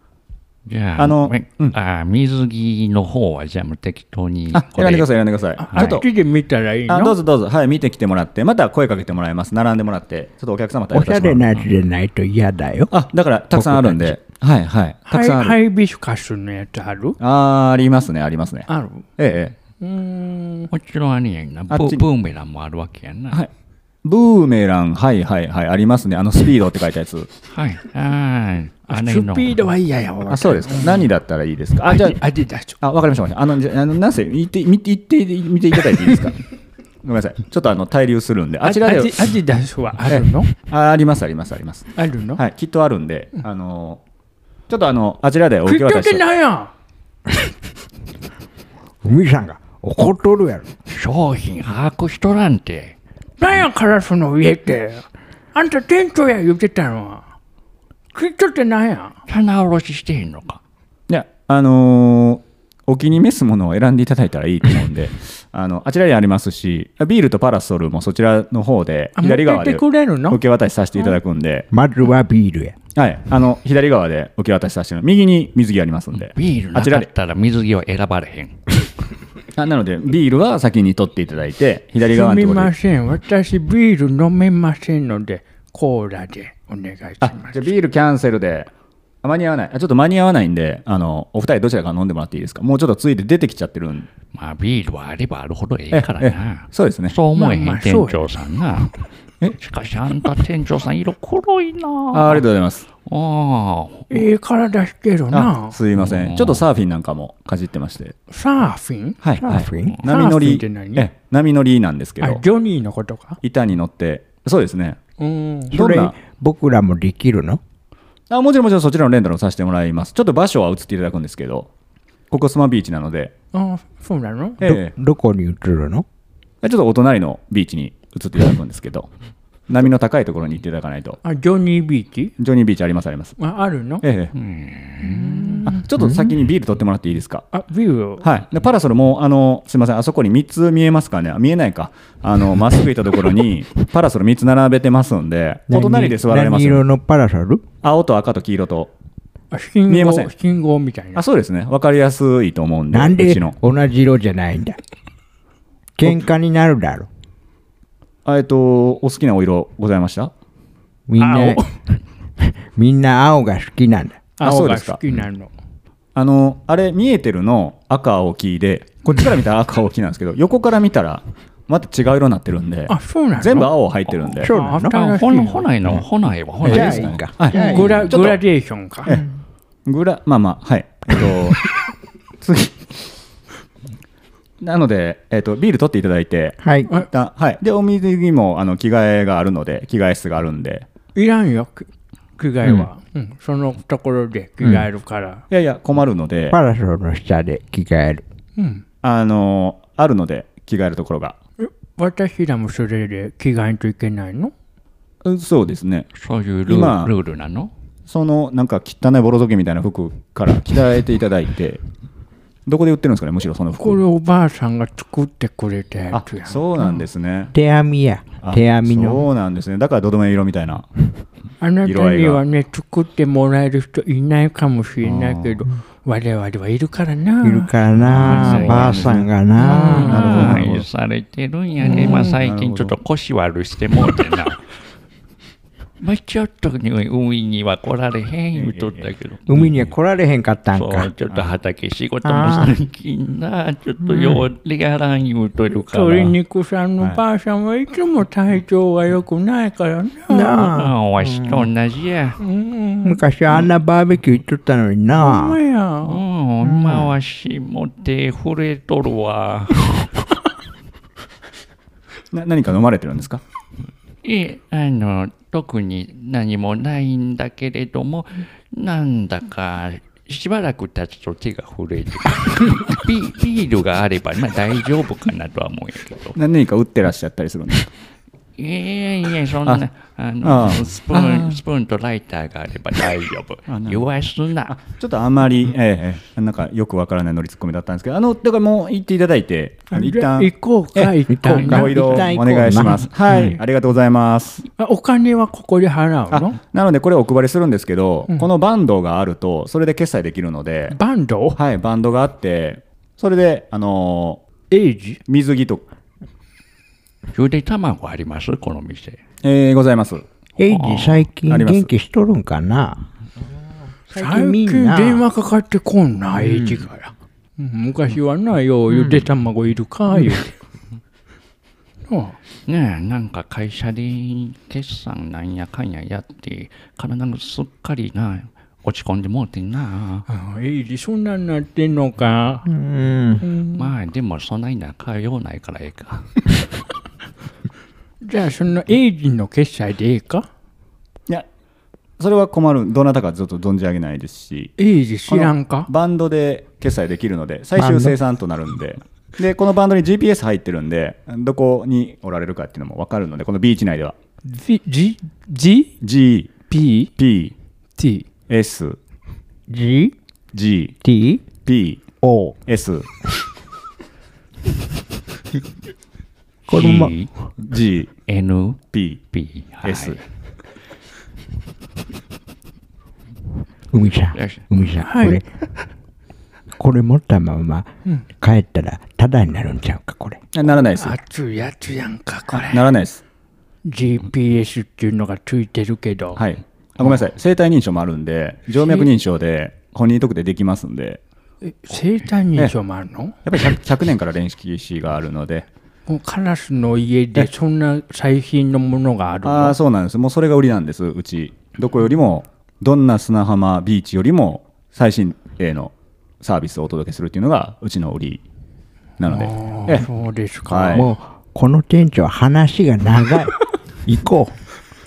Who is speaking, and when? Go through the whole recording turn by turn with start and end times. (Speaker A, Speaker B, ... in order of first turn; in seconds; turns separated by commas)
Speaker A: 0.7-5.1, Speaker B: 1.0-1.8, Speaker B: 4.5-6.1, Speaker C: 5.6-7.2, Speaker A: 5.7-6.0, Speaker B: 6.9-11.5, Speaker D: 10.9-12.9, Speaker B: 12.9-15.6, Speaker D: 13.5-14.2, Speaker C: 15.1-17.2, Speaker B: 17.2-19.6, Speaker C: 18.7-19.1, Speaker C: 19.8-20.7, Speaker A: 20.7-23.4, Speaker B: 21.7-22.1, Speaker B: 24.0-27.3, Speaker A: 27.5-29.6, Speaker C: 28.9-31.1, Speaker B: 30.3-32.2, Speaker C: 31.9-32.8, Speaker B: 32.8-36.4, Speaker B: 37.0-39.3, Speaker C: 38.6-40.5, Speaker B: 40.1-44.0, Speaker C: 42.0-42.4, Speaker B: 44.7-46.2, Speaker C: 45.7-46.7, Speaker D: 49.0-50.7, Speaker A: 50.9-53.0, Speaker C: 53.4-57.3, Speaker C: 58.1-59.2, Speaker A: 59.3-60.6, Speaker B: 61.1-71.7, Speaker C: 69.2-70.4, Speaker D: 71.7-72.8, Speaker B: 73.0-77.1, Speaker A: 76.1-78.7, Speaker B: 79.5-82.7, Speaker C: 82.0-87.7, Speaker B: 87.2-88.7, Speaker B: 89.2-94.1, Speaker A: 94.3-99.0, Speaker B: 95.9-97.2, Speaker C: 97.3-98.2, Speaker A: 99.6-102.5, Speaker B: 102.1-102.9, Speaker A: 103.0-104.3, Speaker C: 104.1-105.8, Speaker B: 105.3-108.2, Speaker A: 106.0-106.6, Speaker C: 108.3-109.2, Speaker B: 109.2-112.4, Speaker D: 109.4-110.0, Speaker C: 110.0-111.1, Speaker C: 112.2-113.4, Speaker B: 113.4-115.0, Speaker C: 115.2-115.8, Speaker D: 115.7-117.6, Speaker B: 115.7-116.1, Speaker B: 118.3-121.7, Speaker B: 122.3-123.3, Speaker C: 123.5-124.6, Speaker B: 124.6-124.9, Speaker D: 124.6-126.0, Speaker B: 126.6-129.1, Speaker B: 129.7-131.2, Speaker C: 131.2-132.3, Speaker B: 132.4-133.4, Speaker C: 133.4-134.1, Speaker B: 134.0-134.3, Speaker A: 134.4-135.6, Speaker C: 135.0-135.8, Speaker B: 135.7-137.5, Speaker D: 136.0-136.3, Speaker C: 137.5-138.3, Speaker B: 138.2-146.8, Speaker D: 145.7-147.7, Speaker B: 147.8-148.9, Speaker C: 149.5-151.2, Speaker B: 149.9-150.3, Speaker B: 151.2-153.6, Speaker D: 152.9-154.8, Speaker D: 156.0-157.1, Speaker B: 158.2-160.3, Speaker D: 161.1-161.8, Speaker C: 161.2-161.7, Speaker D: 162.4-164.3, Speaker C: 164.4-165.5, Speaker B: 164.4-165.0, Speaker B: 166.2-174.5, Speaker C: 172.9-173.7, Speaker D: 174.3-174.9, Speaker C: 174.4-175.7, Speaker A: 174.9-177.2, Speaker D: 176.6-178.1, Speaker B: 176.6-178.4, Speaker C: 177.5-179.2, Speaker B: 179.9-181.7, Speaker B: 182.4-182.9, Speaker B: 184.6-190.9, Speaker D: 186.6-186.9, Speaker C: 191.2-195.4, Speaker B: 195.5-196.6, Speaker D: 196.5-198.2, Speaker C: 198.6-198.8, Speaker B: 199.0-201.4, Speaker C: 201.6-204.5, Speaker B: 205.2-206.1, Speaker A: 206.2-207.7, Speaker B: 206.7-207.1, Speaker B: 208.1-211.8, Speaker B: 212.7-214.0, Speaker C: 213.8-216.6, Speaker B: 216.1-217.5, Speaker D: 217.5-219.3, Speaker B: 218.4-220.9, Speaker C: 221.6-227.7, Speaker B: 221.8-222.4, Speaker B: 225.0-225.6, Speaker D: 227.4-230.7, Speaker B: 228.1-229.0, Speaker A: 228.1-234.6, Speaker C: 229.6-230.3, Speaker B: 230.0-230.9, Speaker C: 231.8-232.3, Speaker B: 232.1-232.9, Speaker A: 236.0-239.6, Speaker B: 238.6-239.7, Speaker D: 239.5-241.1, Speaker A: 240.7-246.4, Speaker D: 242.2-242.8, Speaker D: 244.1-244.4, Speaker C: 245.7-250.7, Speaker D: 250.3-251.7, Speaker A: 250.6-252.4, Speaker C: 252.4-253.2, Speaker D: 253.0-255.6, Speaker C: 255.1-256.2, Speaker A: 256.1-260.0, Speaker D: 256.6-257.1, Speaker B: 262.3-263.4, Speaker A: 264.2-276.4, Speaker B: 276.4-277.9, Speaker A: 278.6-284.8, Speaker B: 280.4-281.6, Speaker B: 283.7-284.1, Speaker B: 284.7-294.6, Speaker C: 289.9-292.3, Speaker D: 291.3-293.1, Speaker C: 294.8-296.6, Speaker B: 296.3-301.0, Speaker C: 300.9-301.6, Speaker B: 301.6-304.4, Speaker C: 304.7-305.2, Speaker B: 305.3-305.8, Speaker A: 307.3-309.2, Speaker B: 309.4-310.3, Speaker D: 310.6-313.0, Speaker A: 310.7-311.2, Speaker B: 311.5-311.9, Speaker D: 314.1-315.2, Speaker C: 314.1-320.5, Speaker D: 316.4-316.9, Speaker C: 322.1-322.4, Speaker A: 322.7-330.3, Speaker C: 330.3-332.7, Speaker D: 332.7-333.4, Speaker C: 333.4-333.9, Speaker A: 333.8-336.5, Speaker C: 338.2-340.5, Speaker B: 342.2-344.7, Speaker C: 344.8-345.9, Speaker B: 345.3-354.2, Speaker D: 347.8-348.1, Speaker C: 354.4-355.9, Speaker B: 356.0-356.5, Speaker C: 356.7-357.1, Speaker B: 357.2-357.5, Speaker C: 358.0-358.3, Speaker B: 358.5-359.0, Speaker D: 359.7-360.1, Speaker B: 360.5-361.0, Speaker D: 361.0-361.5, Speaker B: 361.6-362.0, Speaker D: 362.2-362.6, Speaker B: 362.7-363.1, Speaker D: 366.7-367.1, Speaker A: 366.7-367.3, Speaker B: 367.6-368.1, Speaker A: 368.3-370.2, Speaker B: 368.9-369.2, Speaker B: 369.8-370.2, Speaker D: 373.9-375.5, Speaker A: 374.4-374.6, Speaker C: 375.0-375.4, Speaker D: 376.8-380.4, Speaker B: 380.5-381.2, Speaker C: 380.9-382.9, Speaker B: 382.6-383.2, Speaker C: 383.9-386.4, Speaker B: 386.4-391.2, Speaker C: 391.6-393.4, Speaker B: 393.4-395.7, Speaker C: 396.1-399.8, Speaker B: 399.4-408.4, Speaker B: 409.2-410.1, Speaker C: 409.3-411.1, Speaker B: 410.7-411.1, Speaker D: 410.9-414.6